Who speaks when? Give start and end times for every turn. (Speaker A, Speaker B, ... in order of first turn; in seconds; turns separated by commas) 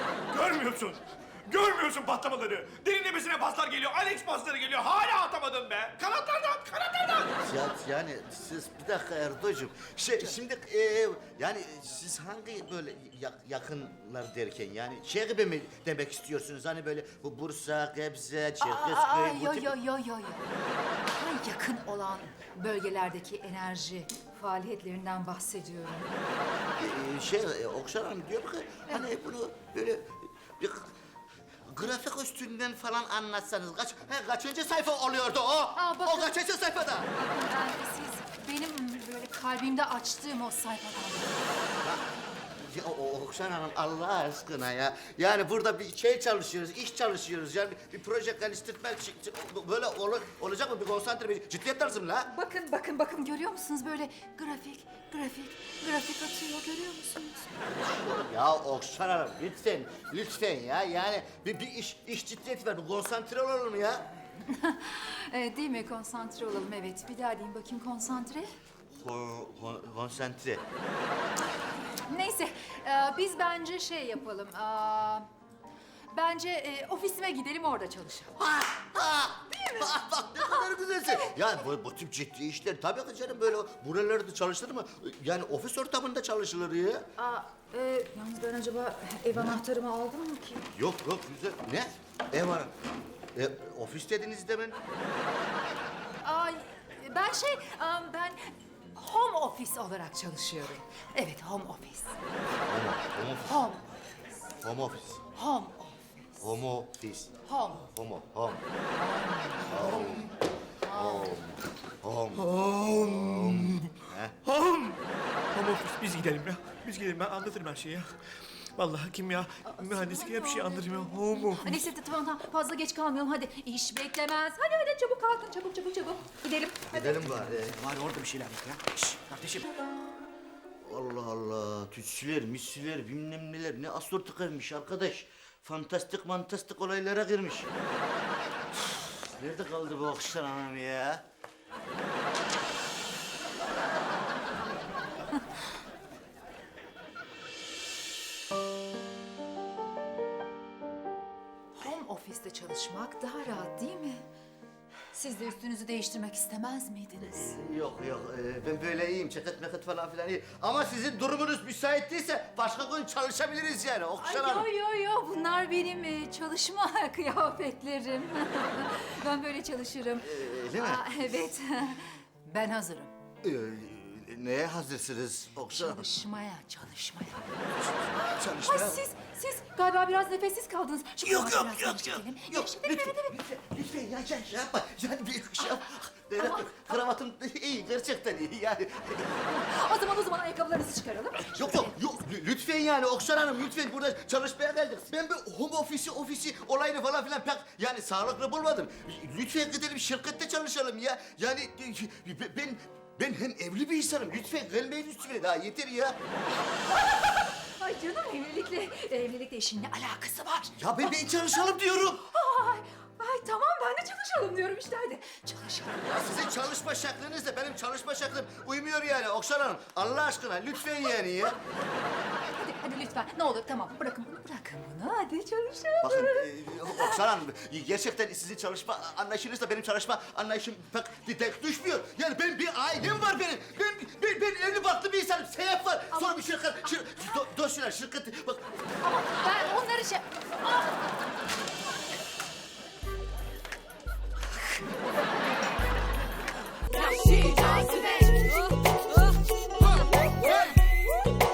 Speaker A: 0.3-7.4, Speaker B: 7.4-19.7, Speaker C: 18.6-20.6, Speaker C: 21.1-26.1, Speaker B: 26.8-30.9, Speaker B: 31.7-37.1, Speaker C: 35.8-36.4, Speaker C: 37.0-41.5, Speaker B: 42.6-52.3, Speaker C: 52.3-57.7, Speaker B: 57.8-64.1, Speaker C: 64.4-68.5, Speaker B: 69.0-70.6, Speaker C: 72.0-75.3, Speaker C: 76.1-78.4, Speaker B: 78.4-87.1, Speaker C: 79.5-81.4, Speaker C: 87.2-90.7, Speaker B: 90.7-92.7, Speaker B: 93.3-94.8, Speaker C: 96.2-102.2, Speaker B: 102.7-103.7, Speaker C: 103.5-104.0, Speaker B: 104.6-105.2, Speaker C: 105.3-106.5, Speaker B: 106.4-108.6, Speaker C: 107.5-107.9, Speaker C: 108.9-110.2, Speaker B: 109.7-110.3, Speaker C: 110.8-111.4, Speaker B: 110.9-114.4, Speaker A: 112.4-115.0, Speaker A: 115.5-118.2, Speaker A: 118.8-121.8, Speaker C: 119.7-127.4, Speaker B: 126.9-129.7, Speaker B: 130.8-137.7, Speaker B: 138.8-141.2, Speaker C: 151.8-154.2, Speaker C: 155.1-157.6, Speaker B: 157.3-164.7, Speaker C: 164.2-173.1, Speaker B: 170.2-171.5, Speaker B: 173.4-176.1, Speaker C: 175.7-177.6, Speaker B: 177.8-179.0, Speaker C: 178.3-183.4, Speaker B: 181.2-189.4, Speaker C: 185.6-185.9, Speaker C: 186.4-187.0, Speaker C: 189.3-192.0, Speaker B: 191.5-206.2, Speaker C: 206.6-216.4, Speaker B: 210.8-212.3, Speaker B: 216.1-221.6, Speaker C: 222.4-227.3, Speaker B: 226.0-238.8, Speaker C: 236.1-237.2, Speaker C: 239.0-241.2, Speaker C: 246.8-248.7, Speaker C: 249.8-250.8